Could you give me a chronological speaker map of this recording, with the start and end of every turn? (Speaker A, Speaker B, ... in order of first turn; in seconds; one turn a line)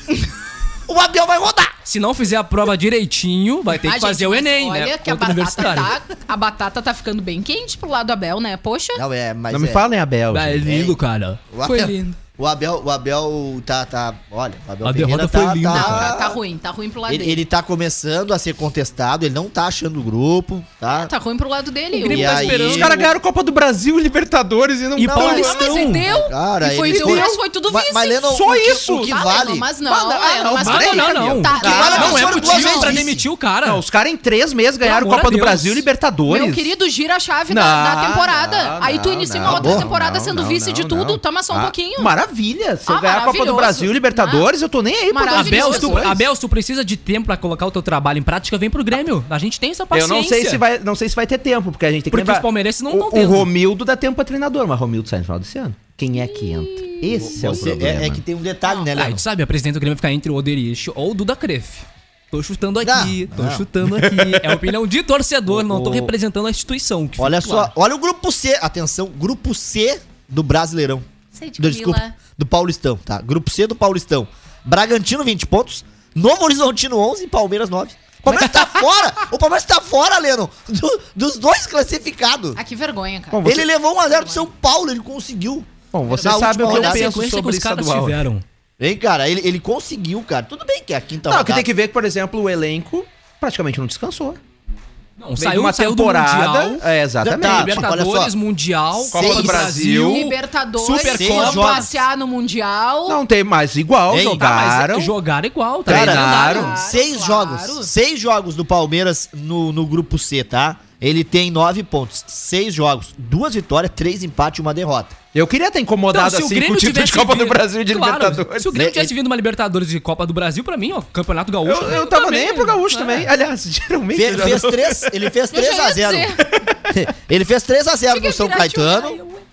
Speaker A: 0.9-1.7
Speaker B: 1.8-6.0
Speaker C: 3.8-9.0
Speaker A: 8.9-9.8
Speaker D: 9.5-10.8
Speaker B: 10.3-11.4
Speaker A: 10.6-11.0
Speaker A: 11.5-16.4
Speaker C: 11.6-12.2
Speaker B: 14.8-16.1
Speaker C: 15.7-17.4
Speaker A: 17.1-21.1
Speaker C: 20.9-22.8
Speaker B: 21.9-23.1
Speaker A: 22.1-22.9
Speaker D: 22.5-25.8
Speaker B: 24.9-26.1
Speaker A: 25.1-29.7
Speaker C: 25.1-33.0
Speaker D: 26.9-27.3
Speaker D: 28.2-29.1
Speaker D: 29.8-32.4
Speaker B: 30.6-33.8
Speaker A: 31.6-33.2
Speaker D: 33.6-36.7
Speaker B: 34.8-35.8
Speaker C: 36.3-42.1
Speaker D: 37.5-46.2
Speaker A: 39.4-39.9
Speaker C: 42.9-44.5
Speaker C: 45.1-46.1
Speaker B: 45.3-50.6
Speaker D: 49.9-58.2
Speaker B: 52.1-53.5
Speaker A: 57.1-59.2
Speaker B: 58.9-67.7
Speaker A: 62.8-63.6
Speaker D: 63.8-64.7
Speaker A: 65.5-66.1
Speaker A: 67.2-71.0
Speaker C: 71.3-72.2
Speaker A: 71.6-82.6
Speaker C: 82.5-83.5
Speaker D: 83.3-83.7
Speaker A: 83.4-87.1
Speaker C: 84.1-84.5
Speaker D: 85.9-88.2
Speaker B: 86.3-88.4
Speaker A: 88.8-91.7
Speaker D: 91.2-94.4
Speaker B: 95.2-96.8
Speaker D: 95.4-97.9
Speaker A: 97.2-98.3
Speaker B: 97.3-101.9
Speaker D: 99.1-100.2
Speaker A: 99.1-99.7
Speaker C: 99.8-103.2
Speaker A: 100.9-102.0
Speaker D: 103.1-105.1
Speaker A: 104.1-104.9
Speaker B: 104.3-106.7
Speaker D: 105.9-106.7
Speaker A: 105.9-115.2
Speaker C: 106.2-107.9
Speaker D: 115.3-118.8
Speaker B: 116.1-123.3
Speaker A: 118.7-119.1
Speaker D: 121.6-125.3
Speaker A: 124.1-129.2
Speaker C: 125.5-126.6
Speaker C: 128.1-129.4